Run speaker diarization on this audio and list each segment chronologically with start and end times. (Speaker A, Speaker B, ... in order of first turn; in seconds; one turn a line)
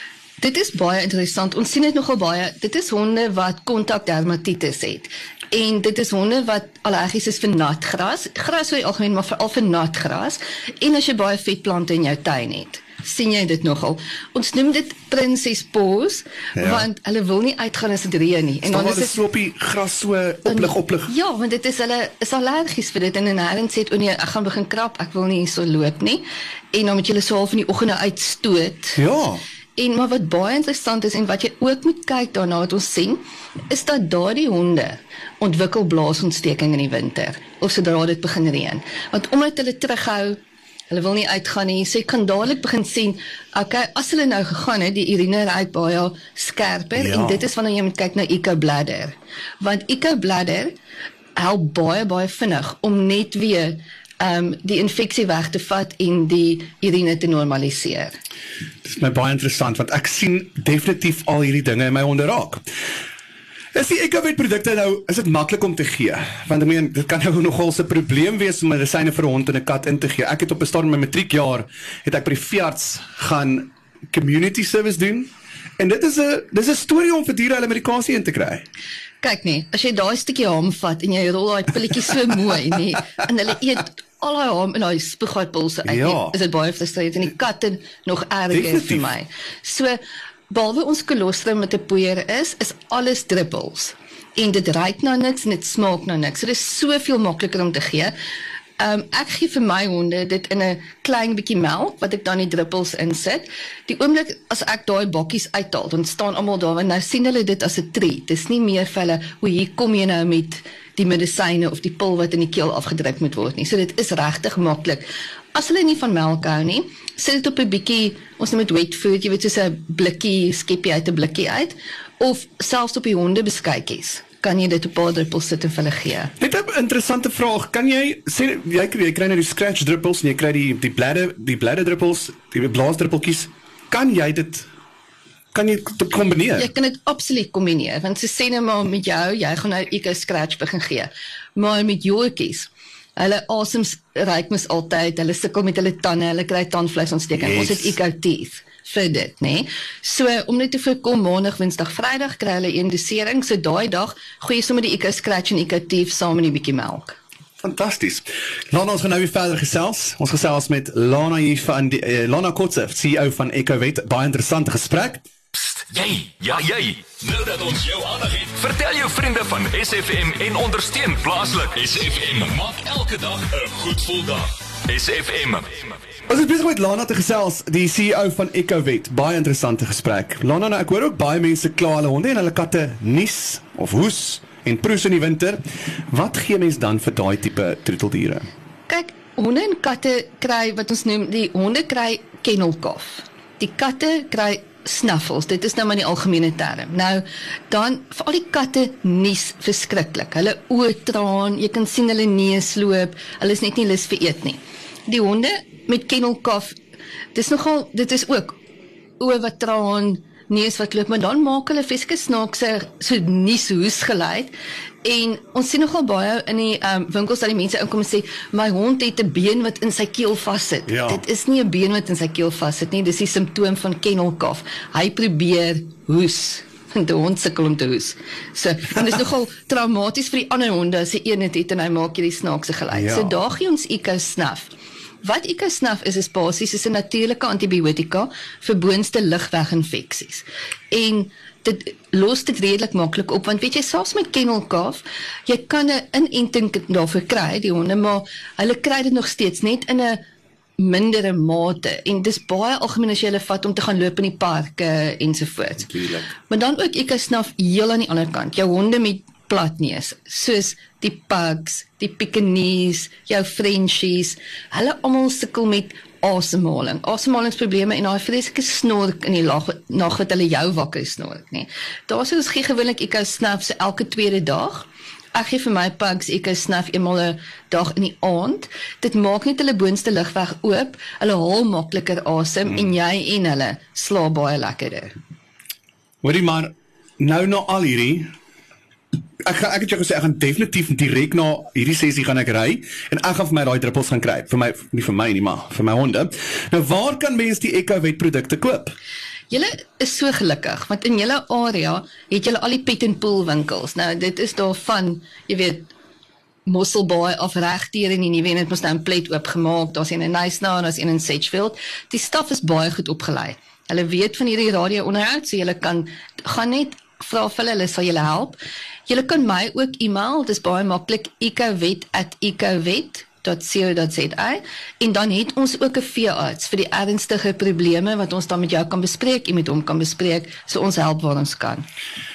Speaker A: 0.4-19.2
Speaker B: 16.6-16.9
Speaker B: 18.6-21.1
Speaker A: 20.5-29.0
Speaker B: 29.0-29.4
Speaker A: 29.8-40.4
Speaker A: 40.9-50.7
Speaker B: 47.0-47.5
Speaker A: 51.4-58.1
Speaker B: 58.9-62.6
Speaker B: 63.7-75.3
Speaker B: 75.8-78.6
Speaker A: 79.2-98.1
Speaker B: 85.8-86.3
Speaker B: 88.5-89.1
Speaker A: 98.8-126.3
Speaker B: 126.4-134.7
Speaker B: 135.5-136.7
Speaker A: 136.6-157.2
Speaker B: 147.4-147.9
Speaker B: 157.6-165.2
Speaker C: 165.6-175.9
Speaker B: 176.3-188.5
Speaker A: 188.9-206.8
Speaker A: 207.3-208.6
Speaker A: 209.2-250.2
Speaker B: 220.9-221.2
Speaker B: 232.9-233.3
Speaker A: 250.8-285.1
Speaker B: 286.2-288.3
Speaker B: 289.4-298.9
Speaker A: 299.5-305.9
Speaker A: 306.7-331.9